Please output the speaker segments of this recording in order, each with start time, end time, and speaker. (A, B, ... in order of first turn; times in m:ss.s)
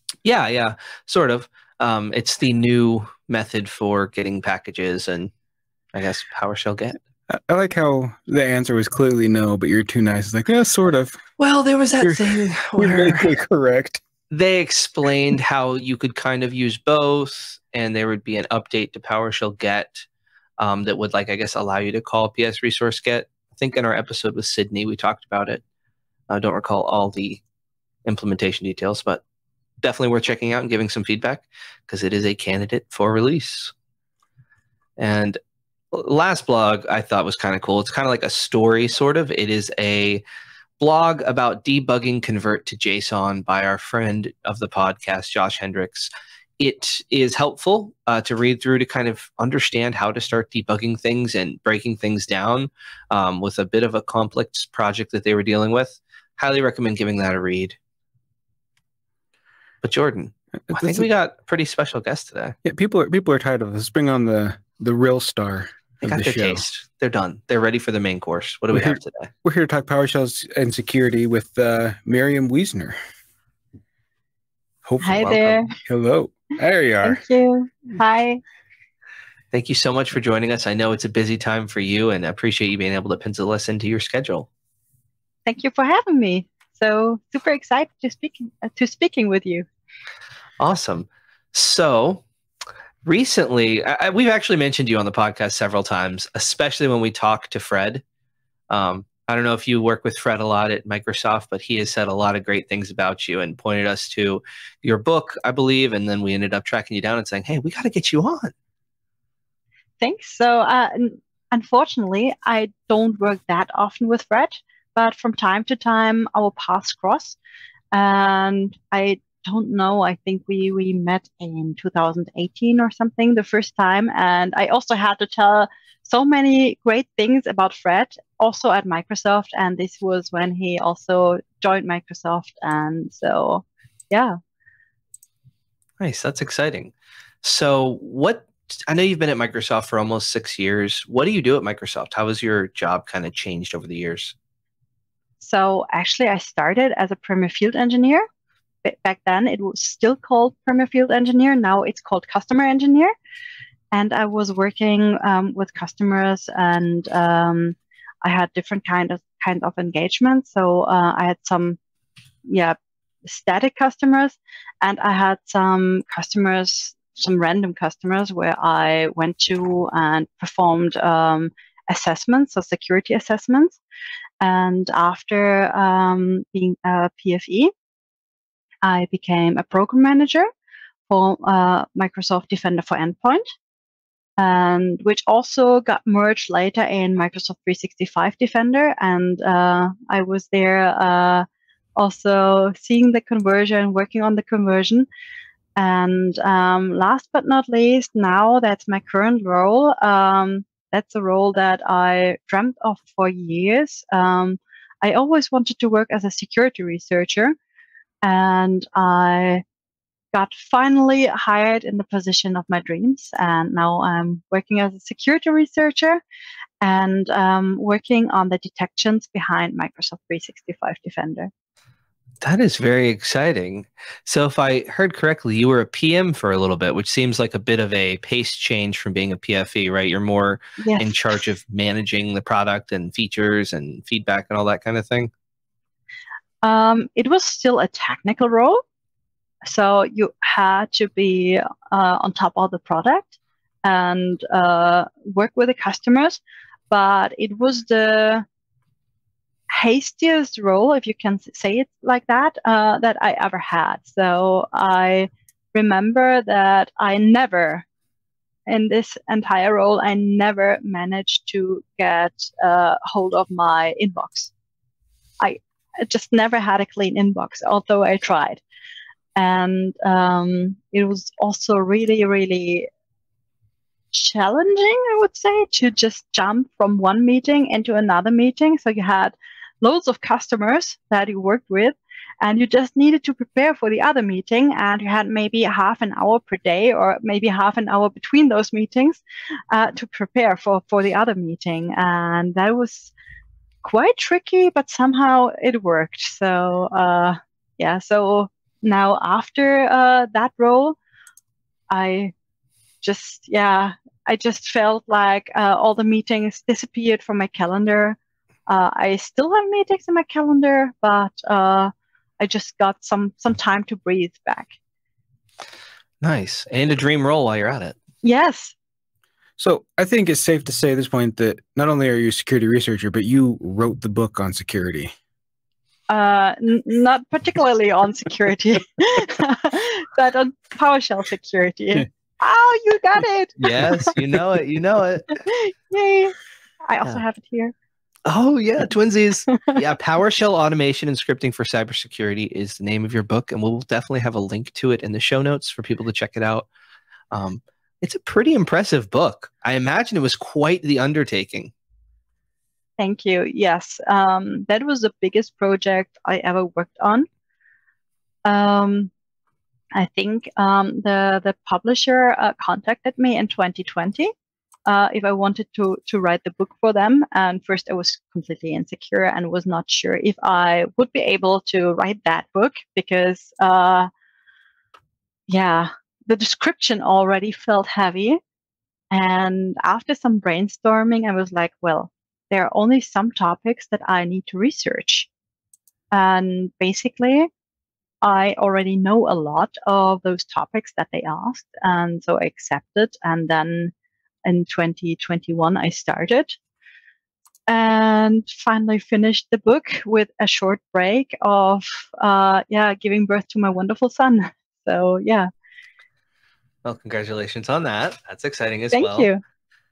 0:00.2-0:05.3 A
0:05.9-0:07.0 A
0:07.3-0:11.2 B
0:11.4-0:13.3 A
0:12.0-0:14.0 B
0:14.3-0:20.0 A
0:20.6-0:25.6 A
0:26.3-0:27.4 A
0:28.0-0:29.2 A
0:29.8-0:33.7 A
0:35.0-0:35.4 A
0:35.9-0:40.2 A
0:40.8-0:57.8 A
0:59.8-1:02.6 A
1:00.7-1:01.1 B
1:02.6-1:06.6 B
1:06.0-1:09.3 A
1:08.7-1:13.0 B
1:14.8-1:17.2 B
1:15.0-1:15.7 C
1:17.0-1:18.4 C
1:19.5-1:24.5 A
1:25.4-1:29.6 C
1:30.6-1:32.2 A
1:33.0-1:38.0 A
1:38.7-1:48.5 A
1:50.0-1:57.4 C
1:57.9-2:14.4 C
2:16.0-2:16.9 A
2:17.4-2:24.3 A
2:25.4-2:28.2 C
2:28.8-2:33.1 C
2:33.9-2:41.8 C
2:42.5-2:53.8 C
2:54.4-2:57.7 C
2:58.8-3:00.5 C
3:01.1-3:03.5 C
3:04.4-3:15.1 C
3:15.8-3:27.6 C
3:28.2-3:29.6 C
3:30.3-3:36.2 C
3:36.8-3:41.5 C
3:42.4-3:55.3 A
3:50.8-3:51.3 C
3:56.6-3:58.8 C
3:59.6-4:06.4 C
4:06.9-4:08.4 C
4:09.7-4:17.8 C
4:18.7-4:24.5 C
4:25.4-4:28.6 C
4:29.4-4:32.9 C
4:34.1-4:53.1 C
4:53.8-5:01.0 C
5:01.9-5:02.3 C
5:03.0-5:08.2 C
5:08.7-5:14.7 C
5:16.2-5:18.0 A
5:18.2-5:18.7 C
5:19.6-5:25.1 B
5:26.1-5:34.1 C
5:33.6-5:35.4 A
5:35.4-5:36.3 C
5:36.8-5:37.7 C
5:38.2-5:46.7 A
5:47.3-5:51.7 A
5:53.0-5:57.3 C
5:58.4-5:59.1 C
5:59.9-6:04.3 C
6:04.9-6:14.1 C
6:15.5-6:18.4 C
6:19.1-6:25.3 C
6:26.1-6:27.5 C
6:28.2-6:33.9 C
6:34.4-6:36.6 C
6:37.7-6:45.5 C
6:46.8-6:49.3 A
6:48.9-6:49.4 C